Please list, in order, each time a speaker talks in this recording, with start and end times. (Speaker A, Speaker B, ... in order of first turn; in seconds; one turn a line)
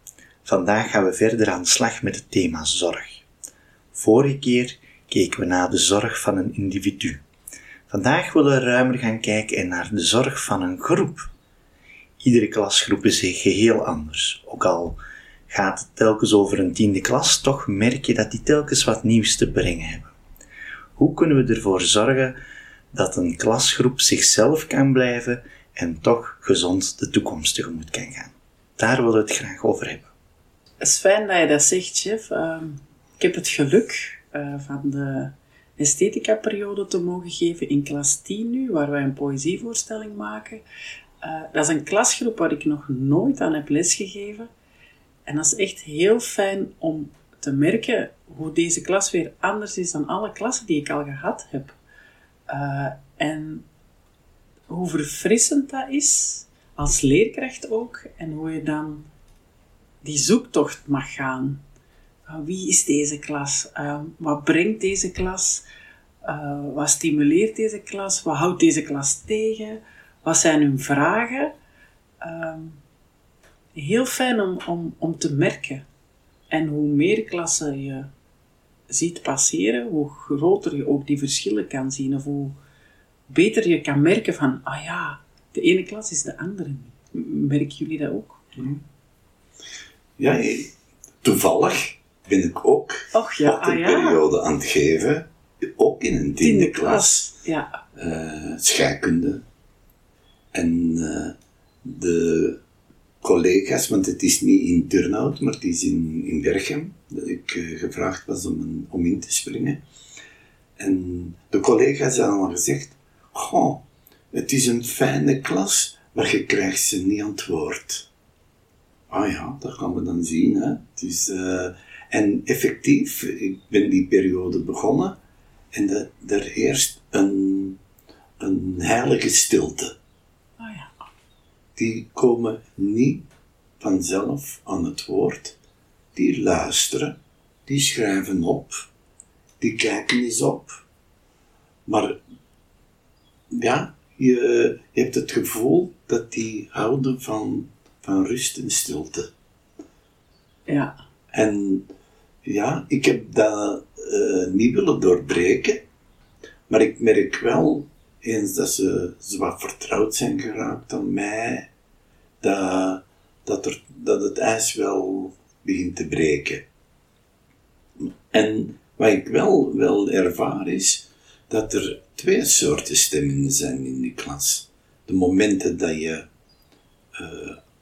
Speaker A: 0.4-3.2
Speaker A: 3.9-7.2
Speaker A: 7.9-11.3
Speaker A: 12.2-20.1
Speaker A: 21.0-22.4
Speaker A: 22.9-30.1
Speaker B: 30.8-40.6
Speaker B: 41.2-44.5
Speaker B: 45.3-51.8
Speaker B: 52.5-53.6
Speaker B: 54.7-59.1
Speaker B: 60.0-61.6
Speaker B: 62.3-65.6
Speaker B: 66.2-71.5
Speaker B: 72.2-72.8
Speaker B: 73.8-75.9
Speaker B: 76.5-78.1
Speaker B: 78.9-82.6
Speaker B: 83.3-88.4
Speaker C: 90.2-97.3
Speaker B: 93.1-94.2
Speaker B: 96.4-97.8
Speaker C: 98.0-99.4
Speaker C: 100.5-102.6
Speaker C: 103.2-109.8
Speaker C: 110.8-118.1
Speaker C: 119.1-125.2
Speaker C: 125.7-127.8
Speaker C: 128.4-129.9
Speaker B: 130.6-130.9
Speaker C: 131.8-133.2
Speaker C: 133.8-135.6
Speaker C: 136.2-138.9
Speaker C: 139.6-140.8
Speaker C: 141.9-142.2
Speaker C: 143.5-149.3
Speaker B: 150.7-150.9
Speaker C: 151.3-151.9
Speaker C: 152.4-155.8
Speaker C: 156.7-161.7
Speaker C: 162.4-166.6
Speaker C: 168.0-176.3
Speaker C: 177.1-177.6